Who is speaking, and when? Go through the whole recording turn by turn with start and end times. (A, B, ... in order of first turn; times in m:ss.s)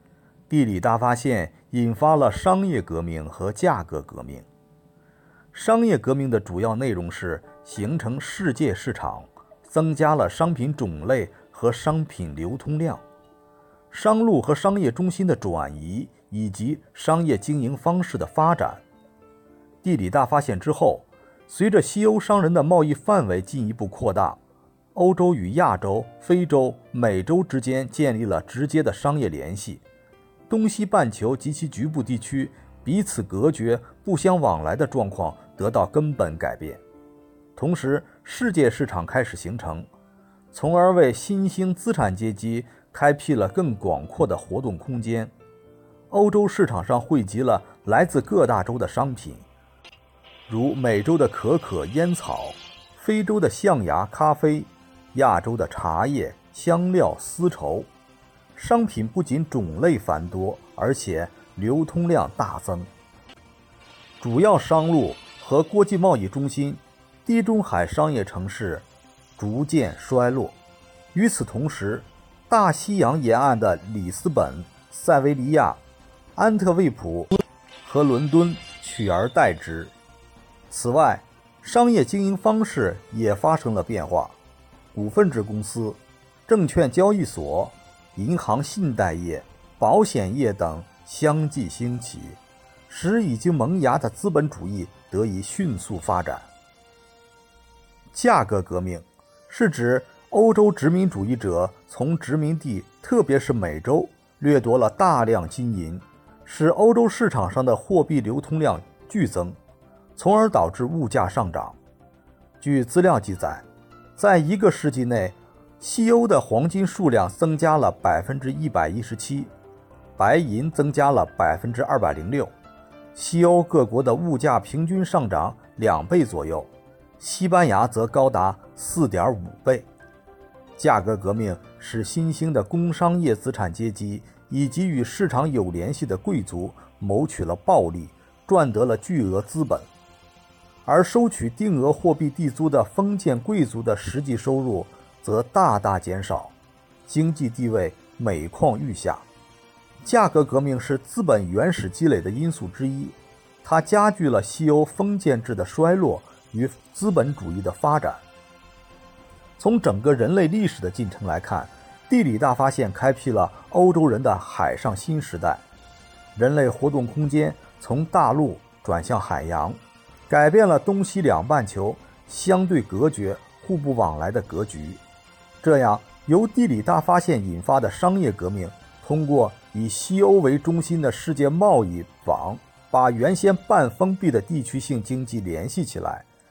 0:00.5-0:04.4 A
0:05.5-0:13.0 A
0:13.9-0:18.8 A
0:19.8-0:24.4 A
0:24.9-0:29.8 A
0:30.5-0:36.8 A
0:37.6-0:39.9 A
0:40.5-0:45.3 A
0:46.1-0:49.4 A
0:50.5-0:57.9 A
0:58.5-1:02.9 A
1:04.2-1:08.8 A
1:09.4-1:10.5 A
1:11.1-1:15.8 A
1:16.4-1:19.9 A
1:20.7-1:24.3 A
1:24.9-1:36.5 A
1:38.1-1:49.6 A
1:50.2-1:51.8 A
1:52.6-1:53.6 A
1:54.2-1:59.5 A
2:00.2-2:02.5 A
2:03.1-2:06.7 A
2:07.2-2:09.8 A
2:10.8-2:19.9 A
2:20.8-2:26.5 A
2:27.1-2:29.2 A
2:30.0-2:38.2 A
2:39.6-2:45.6 A
2:46.3-2:49.8 A
2:50.3-2:55.0 A
2:55.6-3:06.2 A